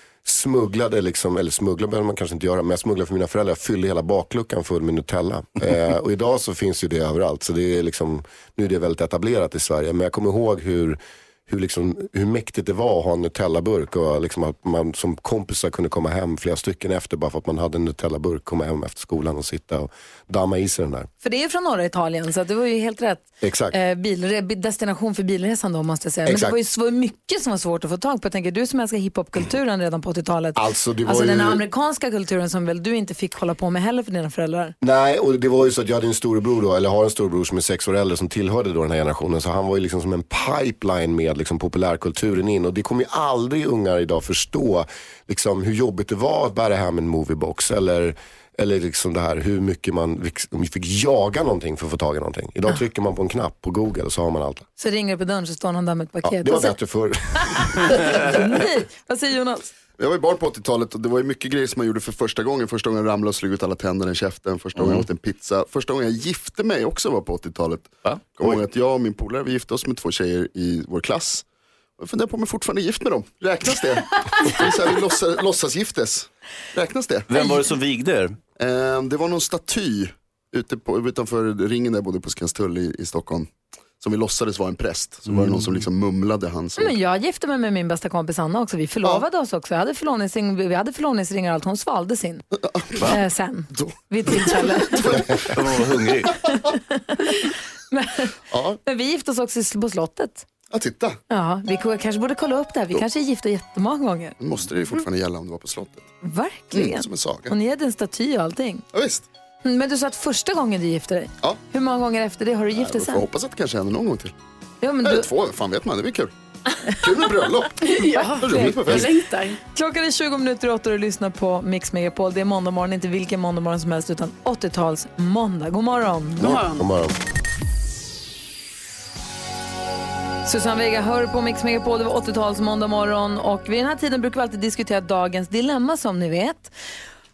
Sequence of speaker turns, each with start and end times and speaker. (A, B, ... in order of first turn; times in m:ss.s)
0:00.2-0:21.1 A
0:21.2-0:34.7 B
0:23.4-0:23.7 A
0:26.2-0:26.6 A
0:30.6-0:31.6 A
0:34.8-0:54.6 A
0:54.8-0:56.7 B
0:56.2-0:58.2 A
0:57.4-0:59.7 B
1:00.0-1:11.4 C
1:04.8-1:05.0 D
1:08.0-1:08.6 D
1:12.0-1:17.3 C
1:17.3-1:18.4 D
1:17.3-1:17.6 B
1:18.6-1:26.9 C
1:25.3-1:25.8 D
1:26.8-1:32.4 B
1:32.6-1:33.2 C
1:33.0-1:35.2 B
1:33.7-1:36.0 C
1:35.1-1:36.3 D
1:36.4-1:38.3 B
1:38.5-1:38.8 C
1:38.8-1:40.4 B
1:40.7-1:41.2 C
1:41.3-1:44.4 B
1:44.4-1:46.1 C
1:46.2-1:48.8 B
1:46.7-1:47.5 C
1:48.9-1:49.2 C
1:49.6-1:53.2 B
1:52.8-1:54.3 C
1:54.8-1:55.3 B
1:55.0-1:56.3 C
1:56.8-1:59.1 C
1:57.8-1:59.6 E
1:58.2-1:59.1 B
1:59.7-2:06.6 B
2:06.4-2:06.8 E
2:06.7-2:07.1 A
2:10.4-2:16.7 B